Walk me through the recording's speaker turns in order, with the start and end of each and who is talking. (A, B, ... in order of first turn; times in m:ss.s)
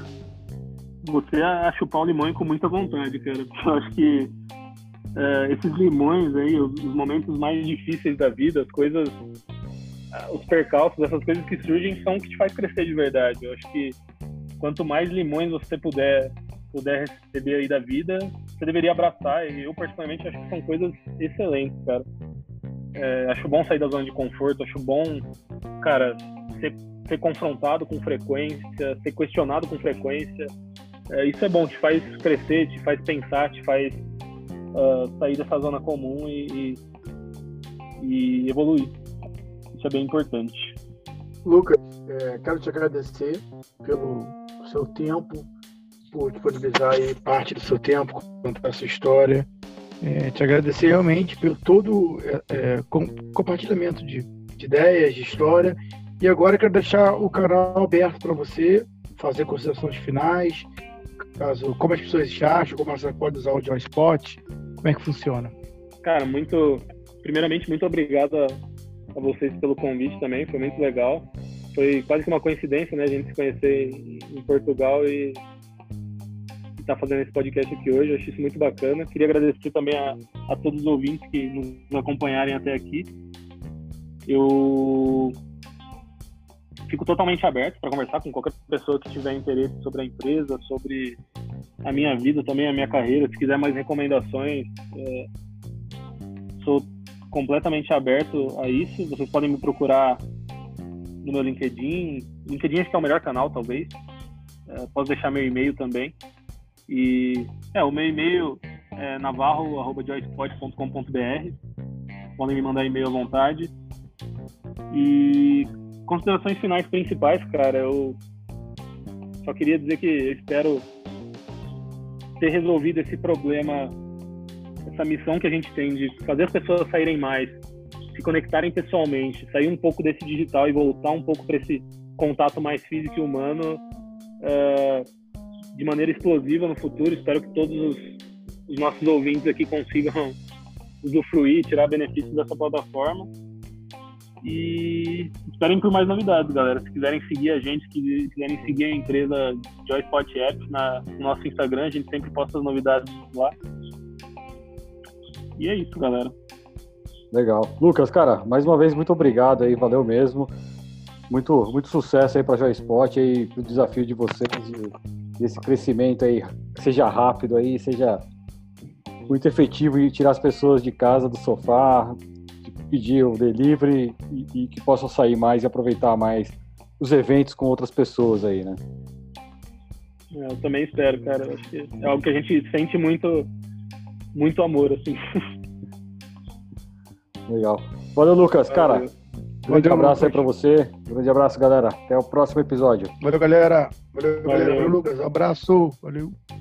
0:01.0-0:04.3 A
0:05.2-0:09.2 A
0:10.1-0:14.0 A
0:14.6-0:22.0 A
0:22.9-0:25.3 A
0:25.8-0:30.5 A
0:31.1-0:34.0 A
0:34.7-0:36.8 A
0:38.0-0:39.0 A
0:39.7-0:40.8 A
0:41.4-0:45.5 B
0:46.1-0:49.5 B
0:50.0-1:00.7 B
1:01.4-1:05.5 B
1:06.0-1:08.6 A
1:09.1-1:15.4 A
1:16.8-1:23.1 A
1:24.3-1:25.3 A
1:26.9-1:31.2 A
1:31.8-1:35.3 A
1:36.6-1:40.2 A
1:41.2-1:44.0 A
1:44.7-1:46.2 A
1:46.9-1:51.6 A
1:52.4-1:53.7 A
1:54.9-1:58.2 A
1:59.4-2:00.8 A
2:02.4-2:04.0 A
2:04.8-2:07.6 A
2:08.1-2:13.8 A
2:14.4-2:15.0 A
2:15.7-2:20.4 A
2:21.0-2:23.3 A
2:24.4-2:33.5 A
2:35.6-2:36.3 A
2:37.3-2:40.5 C
2:41.3-2:48.2 C
2:49.3-2:58.8 C
3:00.3-3:03.5 A
3:04.3-3:05.2 A
3:07.5-3:09.1 C
3:08.7-3:09.1 A
3:09.7-3:10.4 B
3:09.7-3:13.1 C
3:13.2-3:16.3 B
3:14.4-3:15.0 A